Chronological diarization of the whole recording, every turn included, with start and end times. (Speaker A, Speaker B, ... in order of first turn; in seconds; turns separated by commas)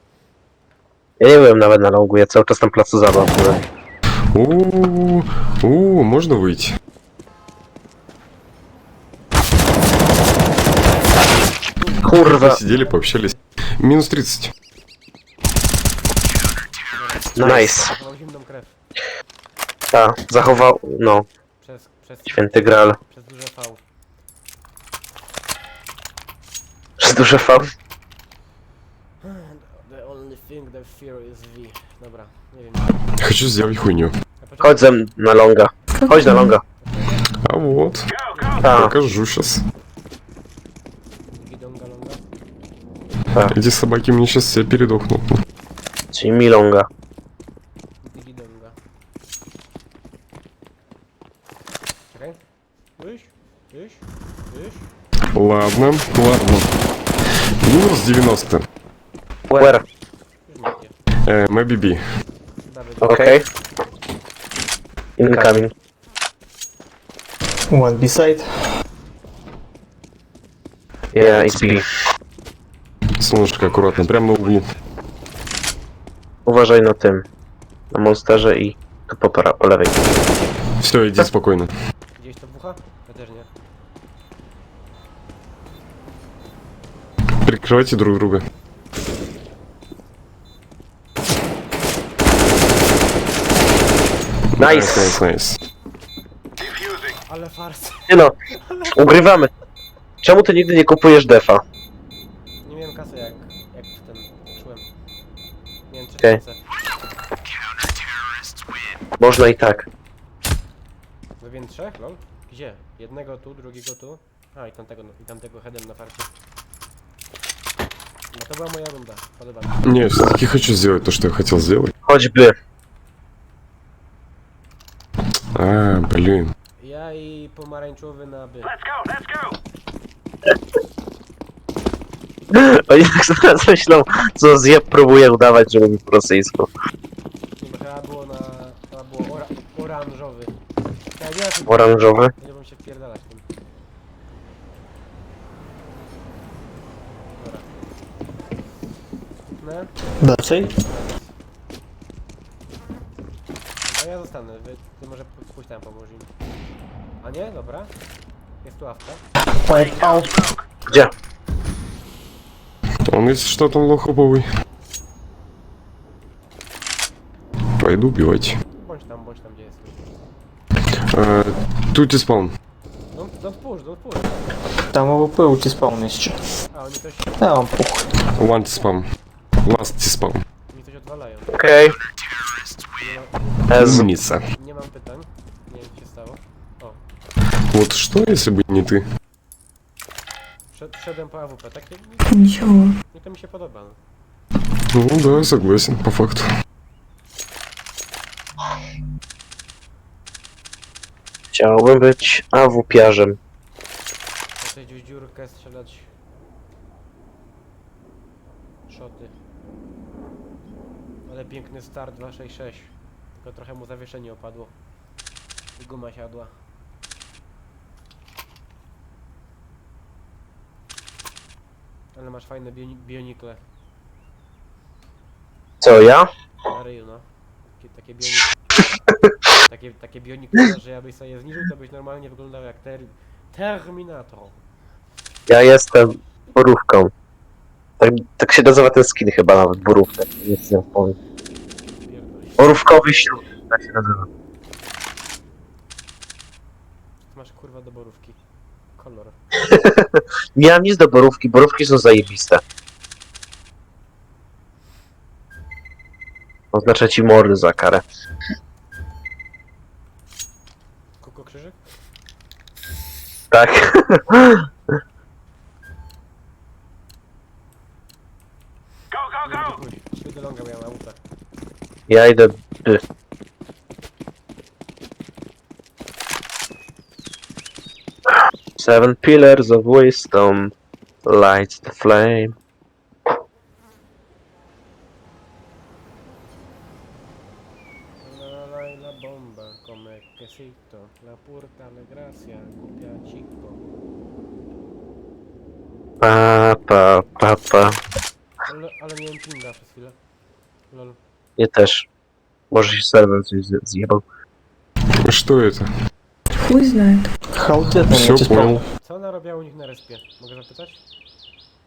Speaker A: 1.2-3.6, Speaker B: 4.3-6.8, Speaker C: 11.8-13.4, Speaker A: 12.0-12.6, Speaker B: 12.1-14.5, Speaker C: 16.9-18.8, Speaker A: 17.4-17.9, Speaker A: 19.9-21.3, Speaker C: 21.6-23.8, Speaker A: 22.3-23.0, Speaker A: 27.0-27.7, Speaker C: 29.2-33.0, Speaker B: 33.2-34.1, Speaker C: 34.4-34.9, Speaker A: 34.6-36.6, Speaker D: 36.0-36.5, Speaker C: 36.8-37.4, Speaker B: 37.4-38.1, Speaker C: 38.3-38.9, Speaker B: 38.6-39.6, Speaker A: 38.6-38.9, Speaker C: 41.3-42.2, Speaker B: 43.5-45.4, Speaker A: 46.1-46.9, Speaker C: 48.0-48.8, Speaker C: 52.1-52.4, Speaker C: 53.0-54.9, Speaker B: 55.3-56.7, Speaker B: 57.6-58.6, Speaker A: 59.5-59.8, Speaker C: 60.5-60.9, Speaker B: 61.2-62.0, Speaker C: 62.6-63.4, Speaker A: 63.0-63.4, Speaker A: 65.2-65.7, Speaker E: 67.7-68.5, Speaker A: 71.1-71.8, Speaker B: 73.2-74.7, Speaker A: 76.5-77.2, Speaker A: 77.9-80.0, Speaker B: 80.8-81.7, Speaker C: 82.2-83.5, Speaker B: 87.4-88.4, Speaker B: 94.6-95.6, Speaker A: 94.6-95.2, Speaker C: 97.3-99.0, Speaker A: 98.1-98.3, Speaker A: 98.9-99.5, Speaker A: 100.2-101.6, Speaker C: 102.6-104.8, Speaker C: 105.9-106.6, Speaker A: 109.2-109.9, Speaker C: 111.4-116.3, Speaker C: 118.3-119.9, Speaker B: 119.8-121.9, Speaker A: 122.1-122.5, Speaker B: 125.5-126.5, Speaker C: 126.8-128.8, Speaker A: 132.5-136.7, Speaker C: 137.6-140.6, Speaker C: 141.1-143.4, Speaker A: 141.7-142.3, Speaker C: 147.4-147.7, Speaker C: 149.4-149.9, Speaker E: 150.2-150.8, Speaker C: 150.7-151.3, Speaker C: 153.8-156.3, Speaker C: 157.2-157.9, Speaker C: 158.6-159.2, Speaker E: 159.6-160.4, Speaker B: 163.1-164.5, Speaker B: 167.8-168.6, Speaker C: 168.7-170.0, Speaker B: 171.1-172.5, Speaker C: 173.1-174.4, Speaker E: 174.9-176.4, Speaker C: 176.7-177.6, Speaker E: 177.4-178.1, Speaker B: 178.4-179.1, Speaker B: 179.6-180.4, Speaker C: 180.7-181.6, Speaker A: 181.5-181.9, Speaker C: 183.0-187.0, Speaker A: 183.7-184.1, Speaker B: 183.7-184.4, Speaker B: 187.7-189.0, Speaker C: 190.7-192.4, Speaker D: 192.3-192.9, Speaker C: 193.1-194.0, Speaker B: 194.9-196.5, Speaker A: 201.5-203.4, Speaker C: 204.6-206.1, Speaker C: 208.9-209.3, Speaker C: 211.3-214.7, Speaker C: 215.8-216.5, Speaker C: 222.1-223.6, Speaker A: 225.8-226.3, Speaker C: 226.7-227.3, Speaker C: 227.8-228.6, Speaker C: 229.6-234.6, Speaker A: 235.5-237.1, Speaker A: 238.0-241.2, Speaker C: 242.1-242.8, Speaker A: 242.6-244.3, Speaker C: 247.3-248.4, Speaker C: 249.0-249.4, Speaker A: 249.6-252.6, Speaker A: 256.7-258.0, Speaker C: 261.2-261.9, Speaker A: 263.5-264.6, Speaker C: 269.4-271.2, Speaker A: 272.1-273.0, Speaker A: 278.8-280.7, Speaker A: 281.3-282.6, Speaker C: 288.2-293.9, Speaker A: 296.2-298.0, Speaker C: 298.6-300.2, Speaker C: 300.9-301.2, Speaker A: 301.6-302.1, Speaker A: 302.7-304.2, Speaker B: 305.2-305.9, Speaker D: 306.6-307.3, Speaker E: 307.5-308.9, Speaker B: 308.1-308.8, Speaker C: 309.0-311.0